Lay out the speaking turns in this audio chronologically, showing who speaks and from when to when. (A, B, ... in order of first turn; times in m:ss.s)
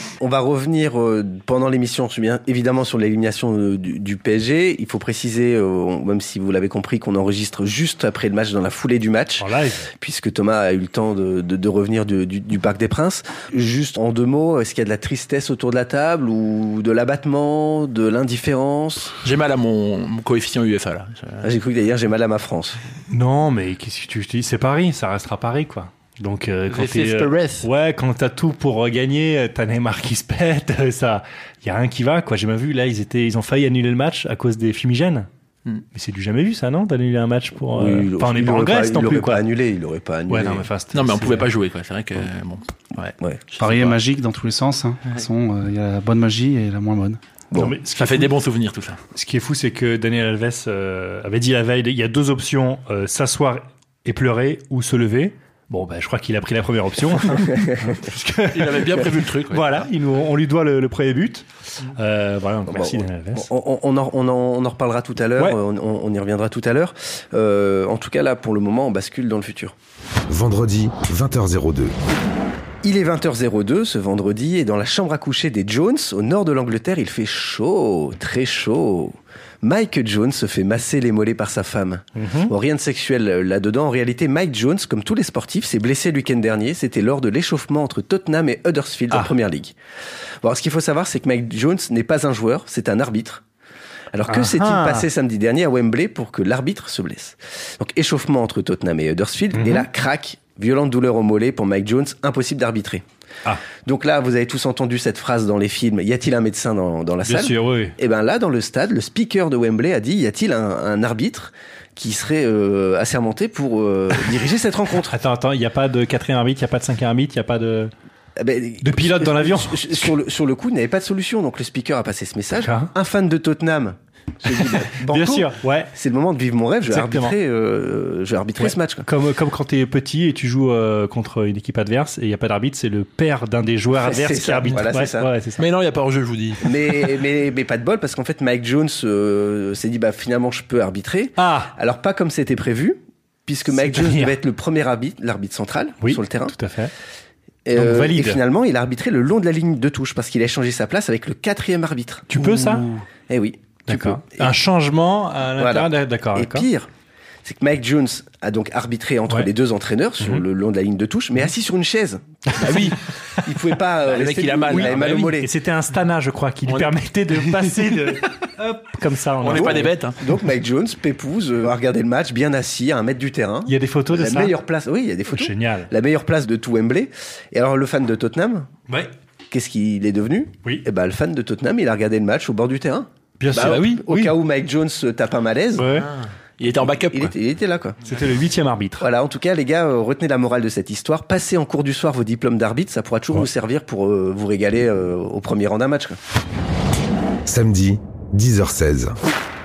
0:00.2-0:09.5 A
0:09.4-0:09.9 B
0:10.0-0:19.1 A
0:19.2-0:21.5 C
0:21.4-0:22.8 A
0:23.1-0:35.3 B
0:26.7-0:27.6 C
0:35.9-0:39.4 B
0:37.7-0:40.7 A
0:40.3-0:41.5 B
0:40.9-0:44.0 C
0:43.6-0:47.2 D
0:47.5-0:48.3 B
0:47.9-0:49.0 C
0:49.1-1:03.5 B
0:58.5-0:59.8 C
1:02.7-1:09.7 A
1:10.3-1:12.0 E
1:12.8-1:29.7 A
1:22.2-1:22.5 B
1:30.4-1:33.4 A
1:34.1-1:43.0 A
1:34.3-1:35.1 B
1:39.5-1:39.8 B
1:43.8-1:55.2 A
1:47.2-1:47.9 B
1:55.1-1:57.9 B
1:58.4-2:09.1 A
1:58.8-2:00.1 B
2:02.6-2:02.9 B
2:05.0-2:05.9 B
2:06.9-2:07.3 B
2:08.6-2:15.6 B
2:13.9-2:15.3 A
2:15.6-2:16.7 C
2:16.6-2:26.6 A
2:21.4-2:21.7 B
2:23.7-2:24.4 B
2:26.0-2:26.9 B
2:27.6-2:34.5 A
2:27.7-2:28.4 B
2:32.3-2:33.0 B
2:33.9-2:36.7 B
2:35.6-2:36.9 A
2:37.4-2:45.5 A
2:42.6-2:43.0 C
2:44.0-2:45.4 C
2:45.3-2:49.9 B
2:46.7-2:48.0 C
2:49.4-2:50.2 C
2:49.5-2:58.7 A
2:53.6-2:54.6 B
2:55.3-2:55.9 B
2:59.5-3:05.9 A
3:03.4-3:04.3 B
3:03.5-3:04.0 C
3:05.8-3:06.1 B
3:06.0-3:07.3 C
3:07.1-3:08.0 A
3:08.0-3:09.1 B
3:09.0-3:16.2 A
3:17.4-3:19.2 E